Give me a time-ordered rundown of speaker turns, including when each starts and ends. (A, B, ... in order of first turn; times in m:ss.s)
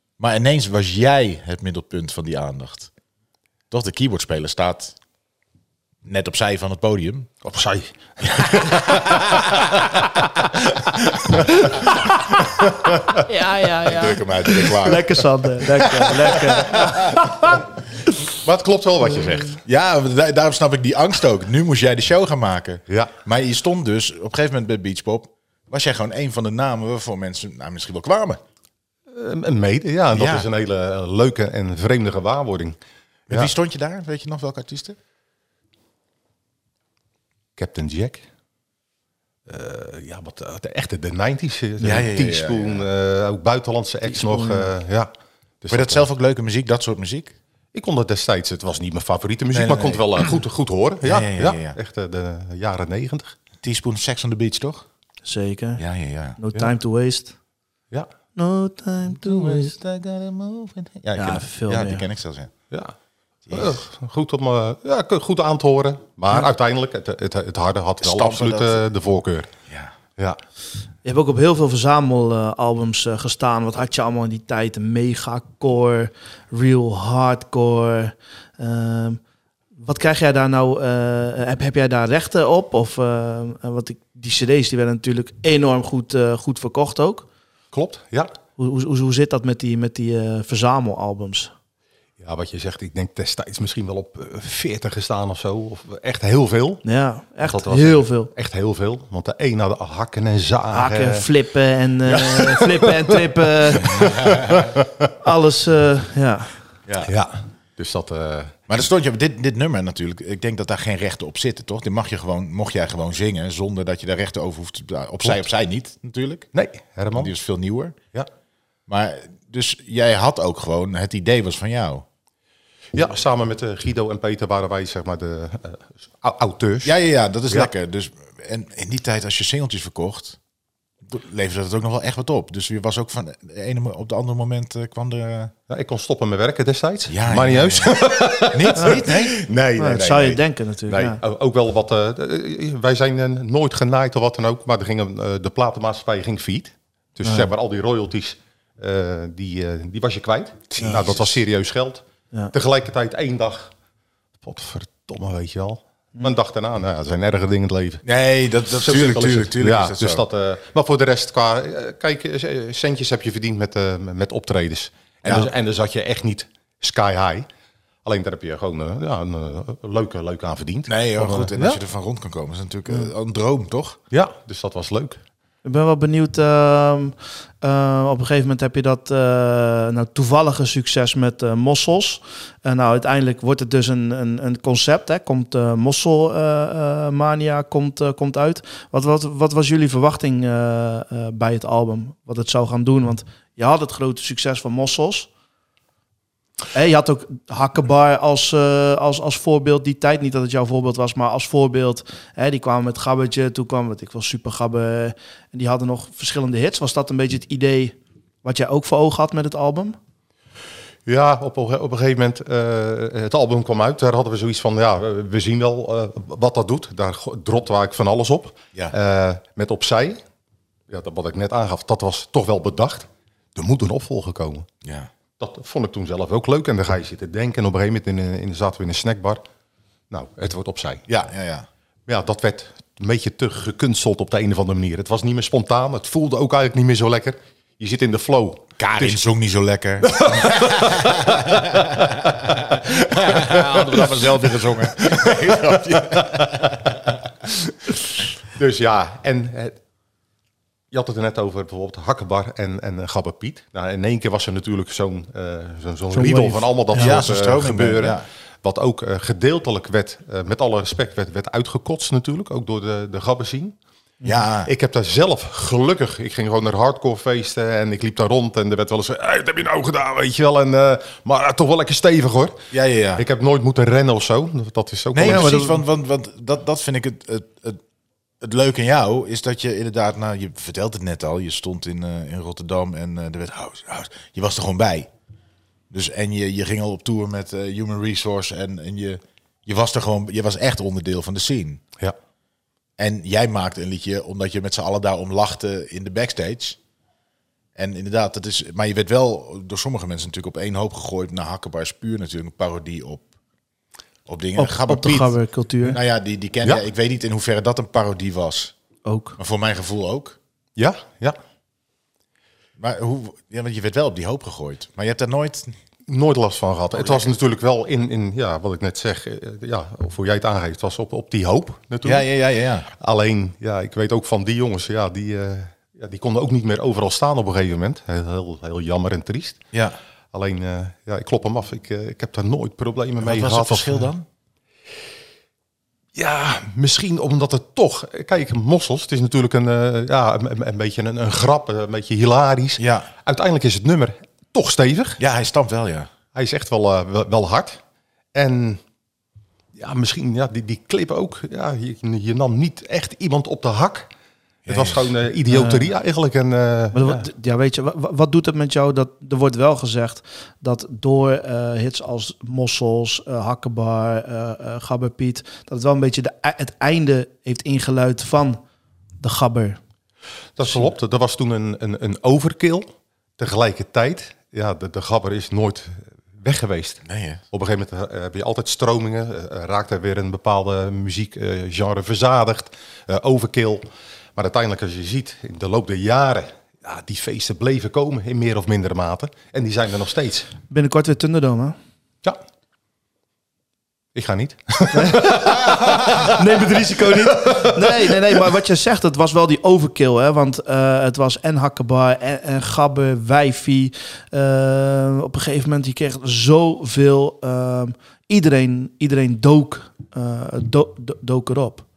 0:00.2-0:02.9 A
0:03.7-0:05.0 A
0:06.0-0:07.3 A
0:07.4-0:09.9 B
0:08.2-0:09.8 A
0:10.8-0:11.9 B
0:12.6-0:13.2 B
0:13.5-0:13.9 C
0:13.6-0:15.2 A
0:14.5-0:17.6 C
0:15.8-0:17.2 A
0:18.3-0:19.6 B
0:19.6-0:28.4 A
0:29.1-0:32.8 B
0:30.1-0:30.5 A
0:33.3-0:35.0 A
0:37.6-0:38.2 B
0:39.5-0:45.1 B
0:41.8-0:42.9 A
0:44.1-0:44.7 C
0:45.6-0:46.0 B
0:45.7-0:47.4 A
0:47.7-0:53.4 B
0:49.5-0:50.3 A
0:51.0-0:51.8 A
0:53.6-0:54.9 A
0:55.2-0:55.8 C
0:55.8-0:56.4 A
0:56.4-0:57.4 C
0:58.4-0:59.7 C
0:59.1-1:02.5 A
1:01.1-1:02.0 C
1:03.5-1:03.8 A
1:03.5-1:09.5 B
1:08.0-1:08.8 A
1:09.7-1:09.9 A
1:11.0-1:19.2 C
1:19.8-1:27.3 C
1:27.7-1:28.3 B
1:28.6-1:31.5 C
1:32.2-1:36.8 B
1:36.8-1:38.3 C
1:37.4-1:41.2 B
1:40.7-1:44.1 C
1:43.8-1:44.9 B
1:43.9-1:44.8 A
1:45.2-1:46.5 C
1:46.9-1:47.1 A
1:47.0-1:48.5 B
1:48.7-1:56.5 A
1:56.5-1:57.3 B
1:57.1-1:58.0 A
1:58.9-2:02.0 A
2:02.9-2:06.9 B
2:06.8-2:10.4 A
2:11.0-2:15.5 A
2:15.7-2:20.2 B
2:17.1-2:20.4 A
2:19.8-2:21.2 C
2:20.9-2:33.7 B
2:27.2-2:27.5 C
2:30.8-2:31.2 A
2:34.4-2:38.0 B
2:38.0-2:40.2 A
2:38.8-2:47.5 B
2:45.2-2:45.5 A
2:48.0-2:51.8 B
2:50.9-2:54.0 A
2:54.1-2:55.2 B
2:55.6-3:15.3 C
3:16.7-3:30.0 C
3:31.1-3:40.2 B
3:40.9-3:44.7 B
3:44.8-3:45.1 A
3:45.4-3:49.4 B
3:50.1-3:51.1 B
3:51.1-3:51.7 A
3:52.1-3:59.2 B
3:58.8-4:07.1 A
4:00.0-4:02.1 B
4:02.7-4:04.3 B
4:05.0-4:06.8 B
4:08.5-4:09.8 B
4:10.9-4:23.8 B
4:16.1-4:17.2 C
4:16.9-4:18.2 A
4:24.2-4:24.7 A
4:24.6-4:32.6 B
4:32.7-4:33.2 A
4:33.2-4:35.7 B
4:35.1-4:37.8 A
4:35.2-4:35.8 C
4:38.4-4:45.1 A
4:45.9-4:51.8 A
4:53.0-4:56.8 A
4:57.8-5:03.3 A
5:04.3-5:08.7 A
5:04.6-5:06.0 C
5:09.0-5:09.4 C
5:09.4-5:10.4 A
5:10.8-5:11.4 B
5:12.8-5:15.7 A
5:16.1-5:22.3 B
5:16.9-5:17.3 A
5:22.0-5:22.9 A
5:23.0-5:29.6 B
5:29.7-5:30.0 A
5:30.3-5:34.1 B
5:33.2-5:34.2 A
5:36.1-5:45.2 B
5:42.8-5:43.1 A
5:45.2-5:46.1 A
5:46.3-5:47.8 B
5:48.3-5:48.8 B
5:49.8-5:54.1 B
5:54.7-5:55.0 A
5:54.7-5:57.2 B
5:55.5-5:55.9 C
5:56.9-6:08.6 C
6:09.2-6:09.8 C
6:10.6-6:12.9 B
6:13.4-6:23.8 B
6:17.1-6:17.4 A
6:24.4-6:30.5 B
6:30.7-6:31.8 C
6:34.1-6:38.4 B
6:34.9-6:51.8 C